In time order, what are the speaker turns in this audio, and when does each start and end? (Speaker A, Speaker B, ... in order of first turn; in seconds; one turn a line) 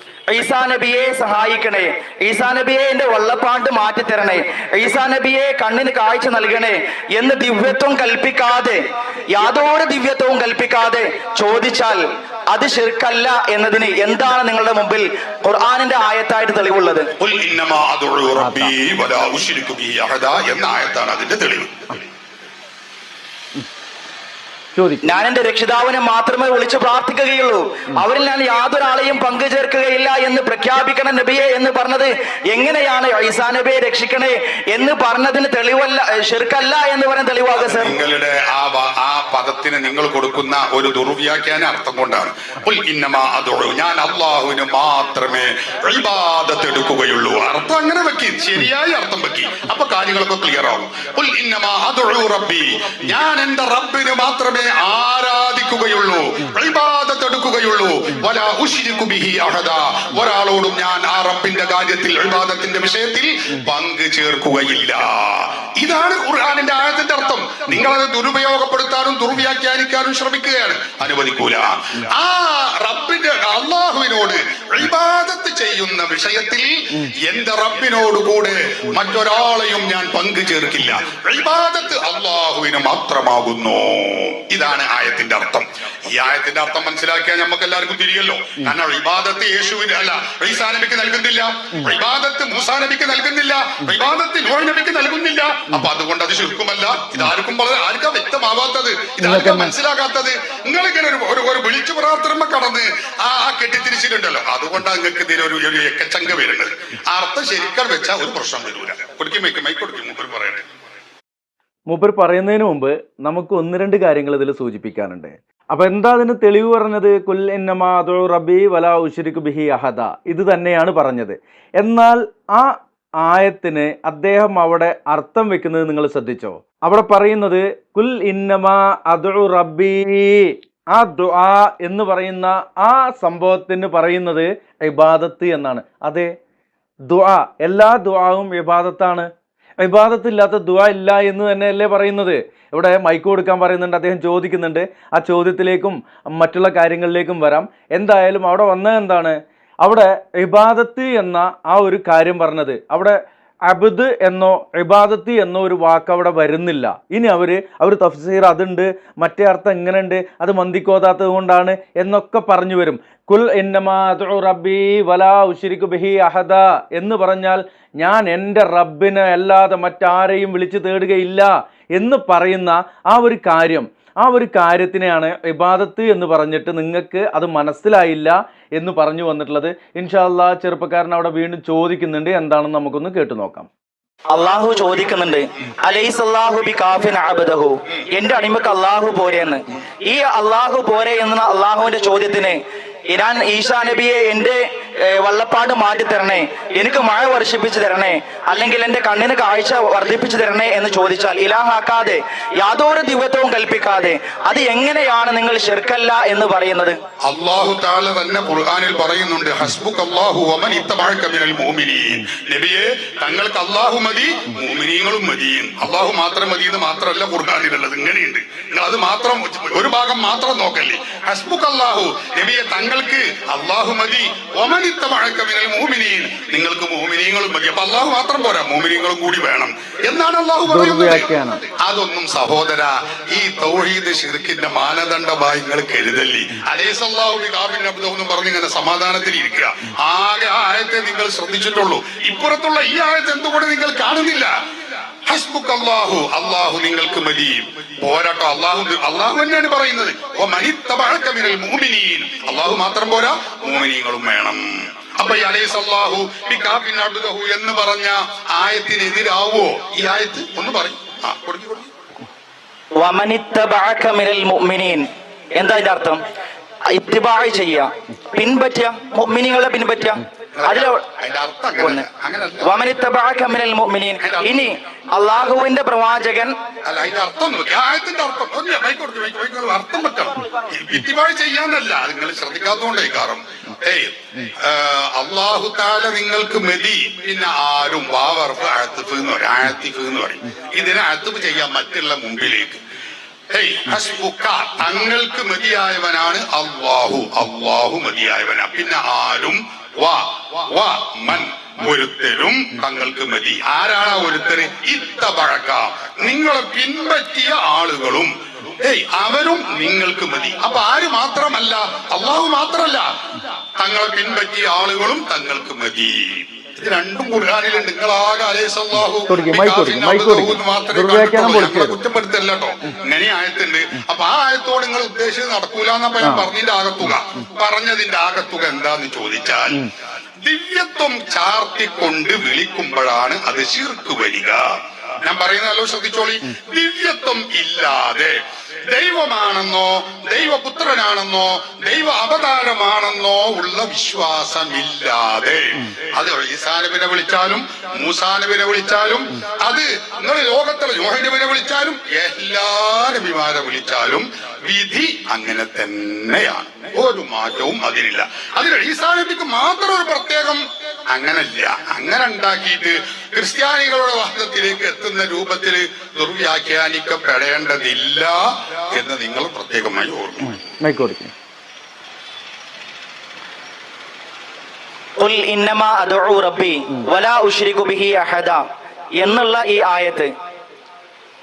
Speaker A: 0.3-17.1
Speaker B: 17.2-21.9
Speaker C: 18.4-18.7
Speaker C: 24.7-25.0
Speaker A: 25.0-37.9
Speaker B: 37.6-110.7
Speaker C: 99.2-99.7
Speaker C: 111.9-122.7
Speaker C: 123.2-136.3
Speaker C: 137.1-139.3
Speaker C: 139.8-153.2
Speaker C: 153.7-183.7
Speaker A: 184.3-207.0
Speaker B: 207.2-231.3
Speaker C: 230.7-231.6
Speaker B: 231.8-244.5
Speaker B: 245.2-254.6
Speaker B: 255.1-261.9
Speaker A: 263.0-266.2
Speaker A: 266.9-271.0
Speaker B: 270.6-272.8
Speaker A: 272.6-276.5
Speaker B: 274.2-274.7
Speaker B: 276.8-292.8
Speaker B: 293.5-313.1
Speaker B: 313.8-329.8
Speaker C: 319.3-322.0
Speaker C: 326.2-326.5
Speaker B: 330.4-334.6
Speaker B: 335.2-338.4
Speaker B: 338.9-370.6
Speaker C: 370.8-371.3
Speaker A: 375.2-378.6
Speaker A: 379.2-380.3